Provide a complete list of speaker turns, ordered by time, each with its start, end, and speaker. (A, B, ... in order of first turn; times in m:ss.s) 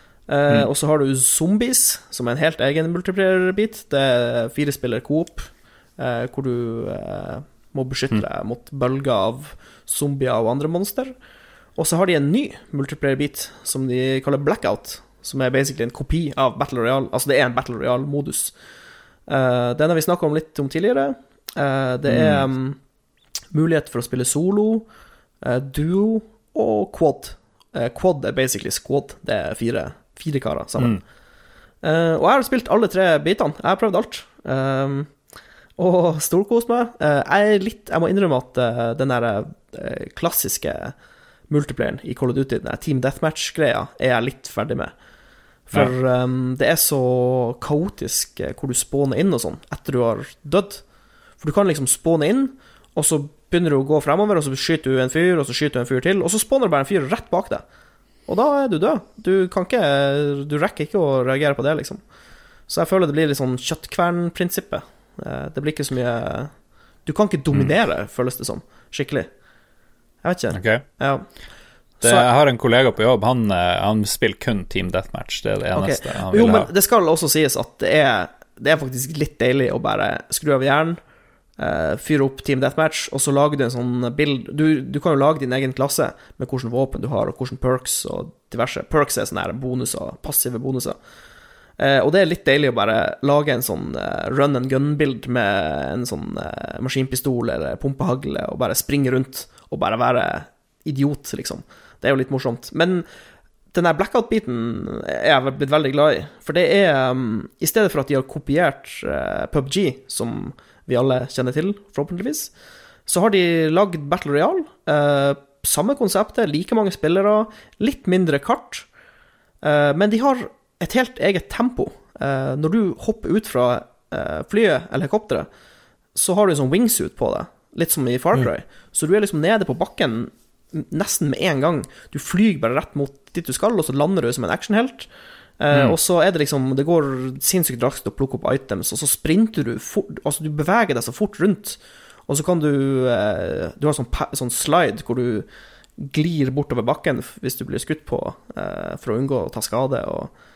0:00.3-0:11.2 A
0:11.8-0:18.5 A
0:19.3-0:22.8 A
0:22.1-0:22.5 B
0:23.5-0:24.9 A
0:25.4-0:31.0 A
0:31.8-0:35.1 A
0:35.8-0:40.9 A
0:41.5-0:44.9 A
0:45.7-0:50.8 A
0:51.4-0:57.6 A
0:58.3-1:02.0 A
1:02.7-1:06.5 A
1:07.0-1:09.3 A
1:10.2-1:11.3 A
1:10.5-1:10.8 B
1:12.0-1:12.3 A
1:12.0-1:16.7 B
1:15.8-1:21.0 A
1:21.6-1:31.0 A
1:31.8-1:43.0 A
1:43.7-1:52.5 A
1:53.1-1:58.9 A
1:59.6-2:05.5 A
2:06.2-2:15.1 A
2:15.6-2:25.5 A
2:26.0-2:30.3 A